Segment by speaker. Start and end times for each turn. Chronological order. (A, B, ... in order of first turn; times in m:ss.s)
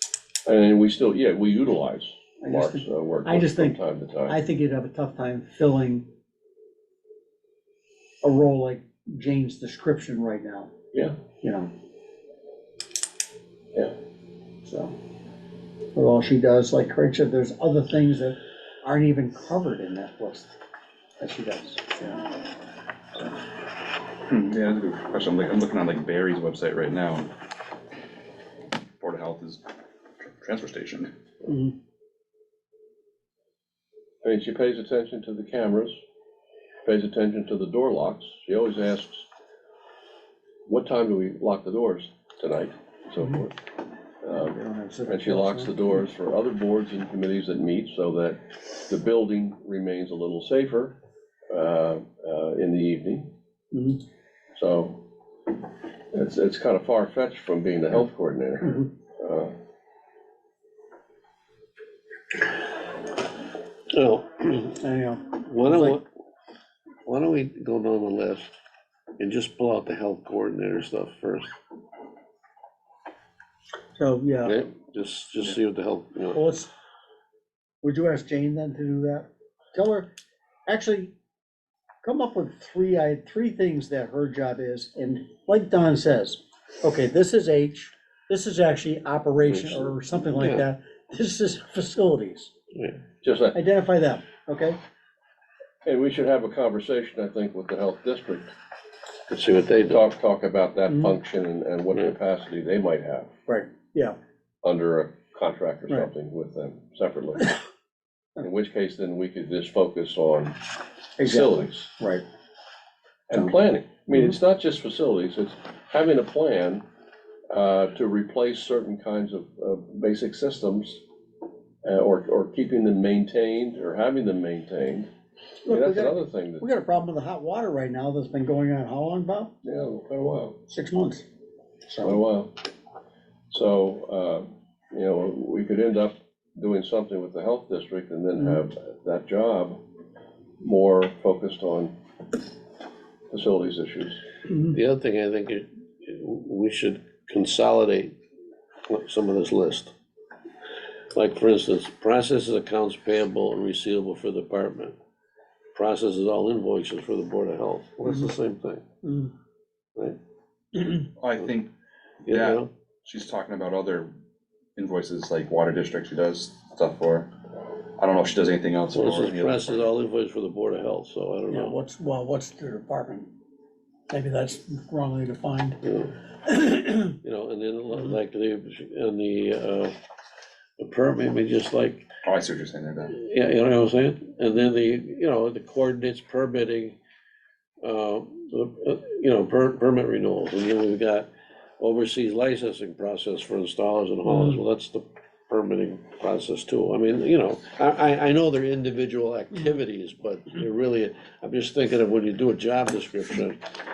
0:00.4-0:04.4 A
0:02.4-0:06.0 B
0:08.2-0:10.7 B
0:11.4-0:11.7 B
0:14.6-0:14.9 B
0:15.9-0:20.6 B
0:21.2-0:22.2 B
0:24.3-0:27.3 C
0:29.0-0:29.6 C
0:30.2-0:31.1 C
0:31.5-0:31.7 B
0:34.2-0:36.0 A
0:36.8-0:39.2 A
0:40.6-0:43.6 A
0:44.2-0:44.6 A
0:44.3-0:46.0 B
0:45.1-0:51.0 A
0:51.5-0:53.3 A
0:53.7-0:54.0 B
0:54.6-0:55.0 A
0:56.1-0:59.5 A
1:03.9-1:04.7 D
1:04.7-1:06.0 B
1:05.4-1:06.0 D
1:07.0-1:08.5 D
1:09.2-1:11.5 D
1:14.0-1:14.6 B
1:14.4-1:16.4 D
1:16.3-1:16.7 B
1:17.8-1:20.1 B
1:20.6-1:21.1 B
1:22.0-1:32.5 B
1:29.4-1:30.7 D
1:32.7-1:33.0 D
1:33.2-1:33.6 A
1:33.5-1:34.8 B
1:35.8-1:38.5 A
1:39.3-1:40.0 D
1:39.8-1:43.3 A
1:40.9-1:41.1 B
1:43.5-1:44.2 B
1:44.6-1:47.6 A
1:48.4-1:50.6 A
1:51.2-1:51.9 A
1:51.2-1:52.2 B
1:53.3-1:56.8 A
1:57.5-2:01.0 A
2:01.8-2:05.1 A
2:05.6-2:09.5 B
2:05.7-2:06.7 A
2:09.6-2:10.6 A
2:10.7-2:11.2 B
2:11.9-2:12.2 B
2:12.0-2:12.6 A
2:13.5-2:19.8 A
2:20.6-2:21.9 A
2:23.3-2:24.2 A
2:24.7-2:28.2 D
2:28.9-2:29.9 D
2:31.1-2:35.0 D
2:35.7-2:38.8 D
2:39.0-2:39.3 B
2:41.2-2:41.7 C
2:42.2-2:42.7 D
2:42.2-2:44.1 C
2:44.8-2:47.3 C
2:48.0-2:49.9 C
2:48.9-2:51.8 D
2:51.5-2:53.3 B
2:54.1-2:55.8 B
2:55.8-2:56.1 D
2:56.4-2:57.2 B
2:57.2-2:59.9 D
3:00.8-3:02.1 D
3:02.2-3:03.2 C
3:03.1-3:07.0 D
3:07.8-3:23.6 D
3:14.3-3:14.6 B